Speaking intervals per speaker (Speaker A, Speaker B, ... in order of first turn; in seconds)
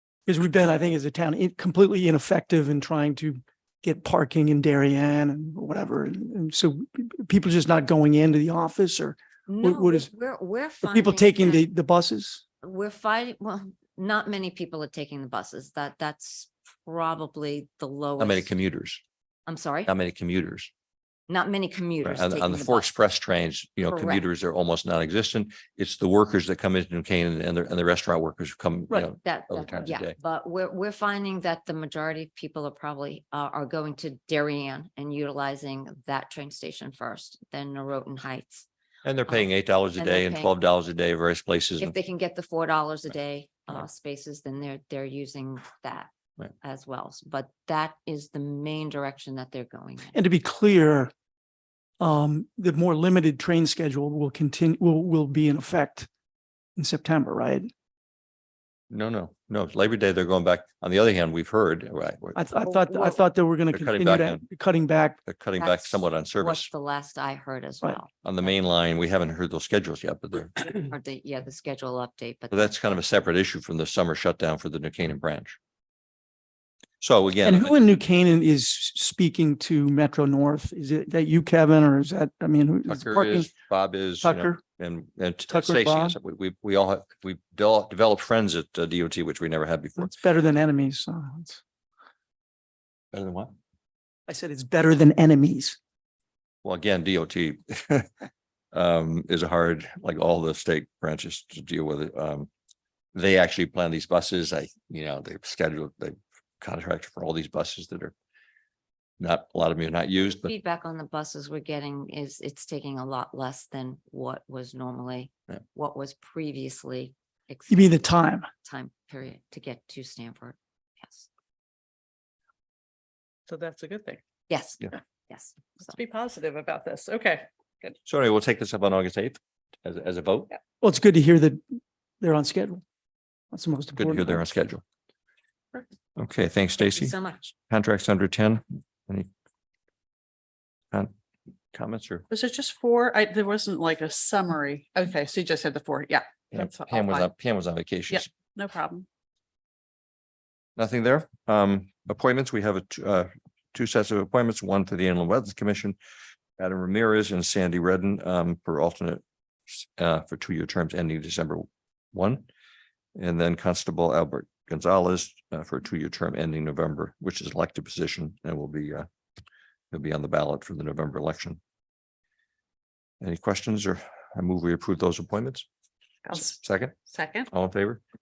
Speaker A: 0.3-10.1, 10.8-12.4, 50.1-51.1, 52.0-56.1, 56.8-57.7, 62.3-65.2, 77.4-83.5, 84.2-84.6, 85.5-86.2, 90.0-91.6, 94.3-95.8, 117.7-118.5, 130.8-132.8, 133.5-134.4
Speaker B: 9.5-11.7, 12.6-18.5, 19.5-19.9, 21.3-22.9, 23.9-24.2, 29.2-38.6, 39.3-40.5, 41.8-50.2, 62.6-63.2, 65.6-68.2, 70.6-72.7, 110.2-118.1, 118.6-121.3, 124.5-125.8, 136.8-137.4
Speaker C: 18.2-19.0, 19.9-20.7, 22.0-30.1, 39.0-41.9, 58.9-62.4, 63.7-64.4, 65.2-66.7, 68.2-70.8, 72.5-75.6, 77.0-77.7, 82.9-90.2, 93.1-93.5, 96.6-98.1, 98.7-102.5, 103.1-108.1, 109.2-110.5, 128.1-130.5, 133.9-134.8, 136.2-139.3, 141.7-142.2, 146.5-148.3, 150.8-155.9, 156.6-162.4, 163.2-169.1, 169.9-171.6, 173.2-175.7, 176.3-176.9, 177.5-178.0
Speaker D: 123.5-124.2, 125.8-128.0, 142.3-147.3, 148.1-149.1, 176.2-177.5